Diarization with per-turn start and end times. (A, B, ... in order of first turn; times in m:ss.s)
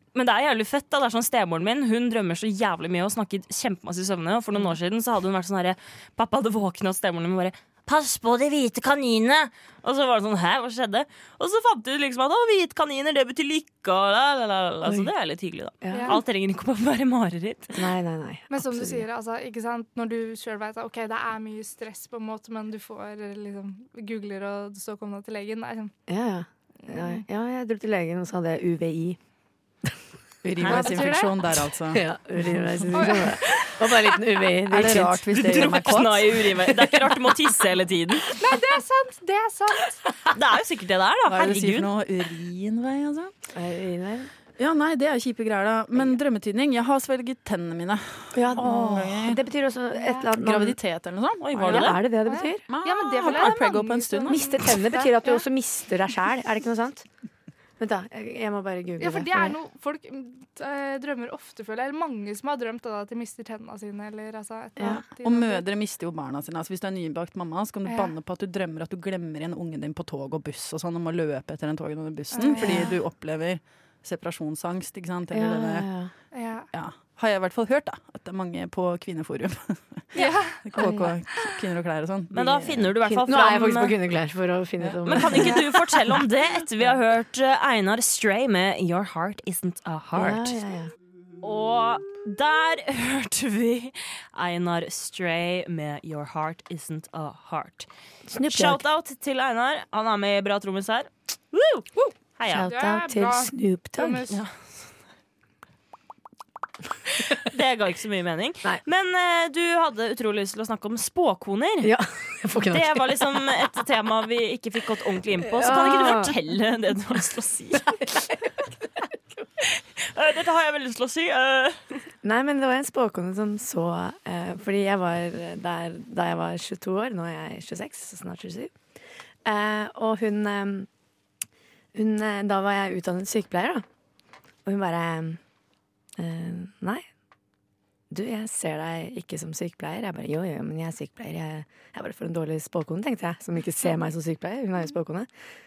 0:00.1-0:17.8 A
0:14.8-0:15.1 B
0:15.8-0:16.2 B
0:15.9-0:16.2 C
0:17.8-0:19.0 B
0:18.5-0:25.9 C
0:26.1-0:29.2 B
0:26.9-0:27.2 C
0:30.4-0:32.0 D
0:30.6-0:30.9 A
0:30.7-0:31.3 C
0:31.9-0:35.2 B
0:32.9-0:33.4 C
0:34.7-0:36.5 D
0:34.8-0:38.3 A
0:36.8-0:37.1 B
0:38.4-0:40.2 C
0:40.3-0:41.9 A
0:41.3-0:43.3 D
0:43.5-0:44.3 B
0:44.6-0:49.4 D
0:48.3-0:50.8 B
0:50.0-0:50.3 C
0:50.3-0:51.9 D
0:51.4-0:52.0 A
0:51.6-0:52.6 B
0:52.3-0:55.4 C
0:52.7-0:54.8 D
0:54.3-0:57.1 B
0:57.8-0:59.6 B
0:59.0-1:05.6 C
1:04.8-1:05.0 B
1:04.9-1:15.9 D
1:07.9-1:08.1 C
1:12.3-1:13.0 C
1:12.6-1:13.0 B
1:15.3-1:16.1 B
1:16.3-1:16.7 C
1:16.7-1:22.9 D
1:20.2-1:20.9 C
1:20.8-1:21.2 B
1:22.3-1:24.0 A
1:23.0-1:25.8 B
1:24.8-1:25.3 D
1:25.1-1:30.6 A
1:30.2-1:30.9 B
1:31.4-1:37.9 A
1:38.3-1:38.8 B
1:38.5-1:42.7 A
1:42.5-1:44.3 B
1:42.7-1:44.4 C
1:47.3-1:51.9 A
1:51.8-1:53.2 B
1:52.6-1:58.1 A
1:55.4-1:56.4 B
1:59.7-2:01.8 A
2:02.2-2:08.7 B
2:09.4-2:10.9 B
2:11.9-2:13.8 B
2:14.6-2:15.4 B
2:16.2-2:17.0 B
2:18.1-2:25.3 B